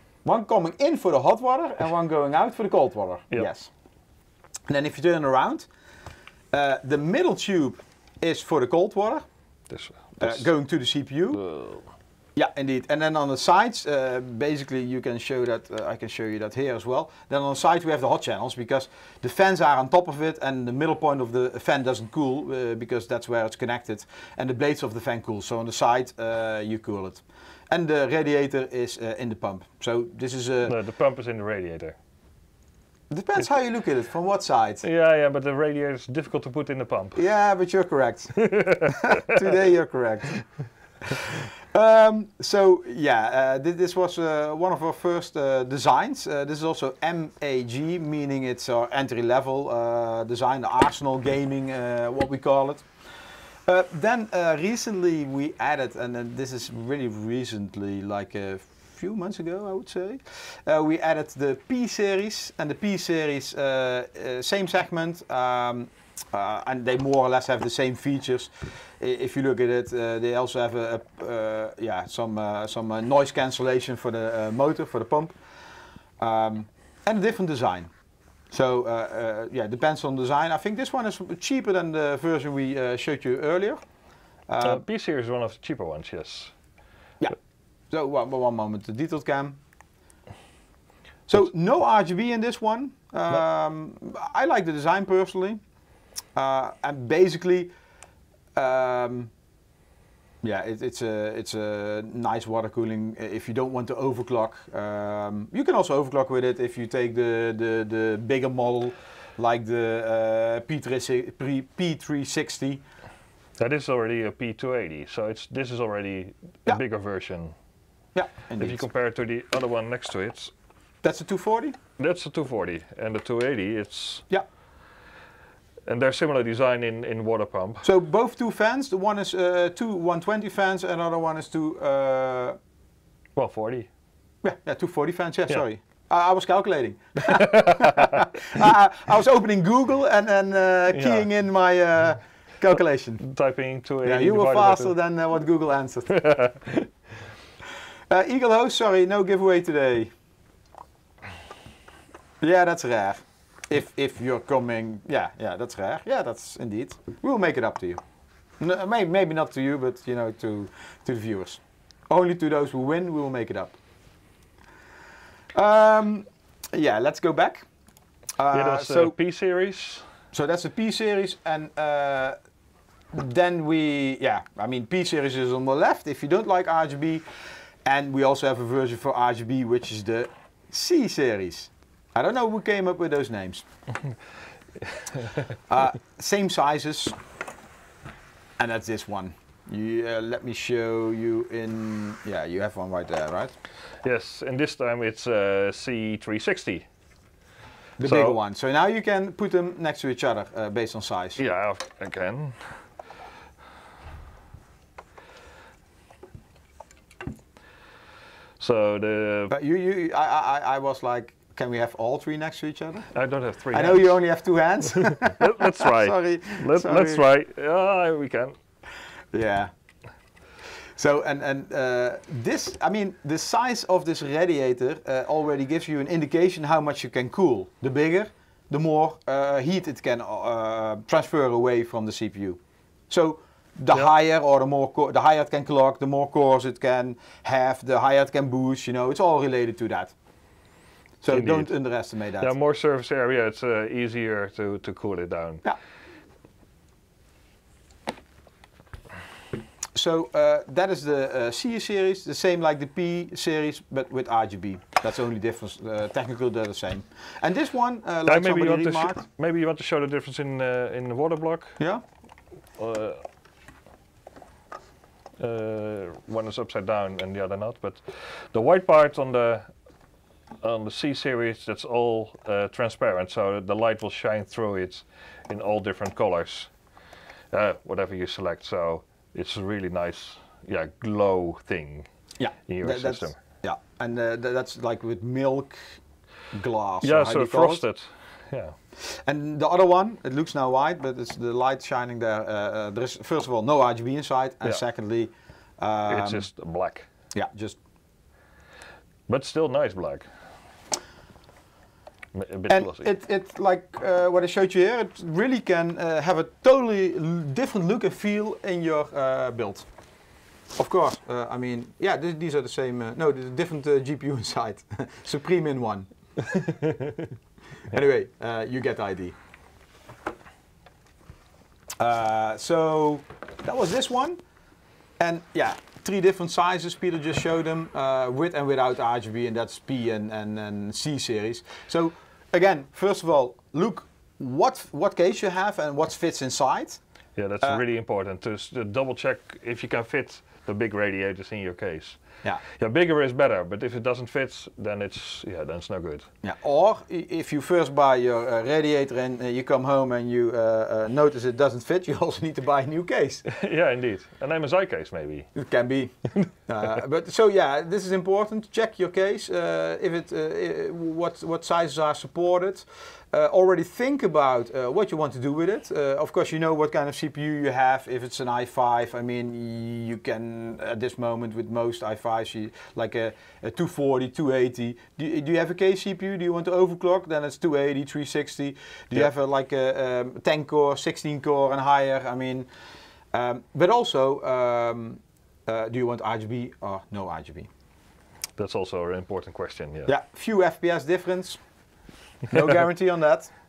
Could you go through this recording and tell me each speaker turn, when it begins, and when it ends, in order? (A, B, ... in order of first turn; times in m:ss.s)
0:00.2-0:03.7 A
0:04.7-0:05.7 A
0:06.5-0:09.2 A
0:09.7-0:10.5 B
0:10.2-0:11.4 A
0:11.3-0:11.8 B
0:12.4-0:30.8 A
0:30.6-0:32.0 B
0:33.1-0:34.8 A
0:34.8-0:37.2 B
0:37.2-0:40.5 A
0:38.4-0:39.5 B
0:41.1-0:52.9 A
0:53.7-1:15.4 A
1:16.2-1:17.9 A
1:18.5-1:23.8 A
1:24.5-1:24.8 A
1:24.6-1:26.5 B
1:27.9-1:29.6 A
1:31.3-1:35.6 A
1:36.4-1:37.7 A
1:38.6-1:39.3 A
1:40.4-1:52.8 A
1:53.6-1:57.6 B
1:58.2-1:58.8 A
1:58.6-2:00.5 B
2:01.0-2:01.8 A
2:02.0-2:04.3 B
2:05.9-2:07.8 B
2:07.8-2:12.6 A
2:13.4-2:13.9 B
2:14.4-2:23.2 A
2:17.2-2:18.3 B
2:20.9-2:21.3 B
2:23.2-2:24.9 B
2:24.0-2:26.1 A
2:26.1-2:26.9 B
2:28.1-2:30.1 A
2:32.4-2:38.0 A
2:38.6-2:43.8 A
2:45.5-2:47.7 A
2:48.4-2:49.1 A
2:48.5-2:50.1 B
2:50.3-2:52.4 A
2:53.1-2:57.2 A
2:57.8-3:03.6 A
3:04.8-3:05.5 B
3:05.7-3:07.2 A
3:08.6-3:13.5 A
3:14.0-3:16.9 B
3:18.0-3:21.4 A
3:18.0-3:18.4 B
3:21.4-3:22.8 B
3:28.6-3:29.6 B
3:29.5-3:33.1 A
3:33.1-3:34.2 B
3:33.7-3:37.2 A
3:35.0-3:38.6 B
3:39.3-3:39.7 A
3:41.0-4:00.1 A
4:01.2-4:02.5 A
4:01.3-4:01.7 B
4:02.4-4:05.6 B
4:10.0-4:19.2 A
4:18.3-4:21.8 B
4:22.8-4:23.2 B
4:25.4-4:29.7 B
4:30.6-4:36.7 B
4:37.5-4:42.1 B
4:42.4-4:46.0 A
4:42.7-4:43.4 B
4:46.5-4:47.8 A
4:47.0-4:48.8 B
4:49.0-4:56.5 A
4:56.1-4:57.1 B
4:57.3-4:57.8 A
4:59.3-5:00.3 B
5:02.4-5:03.1 B
5:02.7-5:09.9 A
5:10.8-5:16.1 A
5:16.5-5:17.2 B
5:17.9-5:19.4 A
5:22.0-5:24.4 A
5:25.2-5:37.0 A
5:37.4-5:46.3 B
5:46.4-5:53.4 A
5:53.5-5:55.5 B
5:55.6-6:22.7 A
6:23.3-6:27.7 A
6:28.6-6:30.1 B
6:30.1-6:31.6 A
6:32.5-6:33.5 A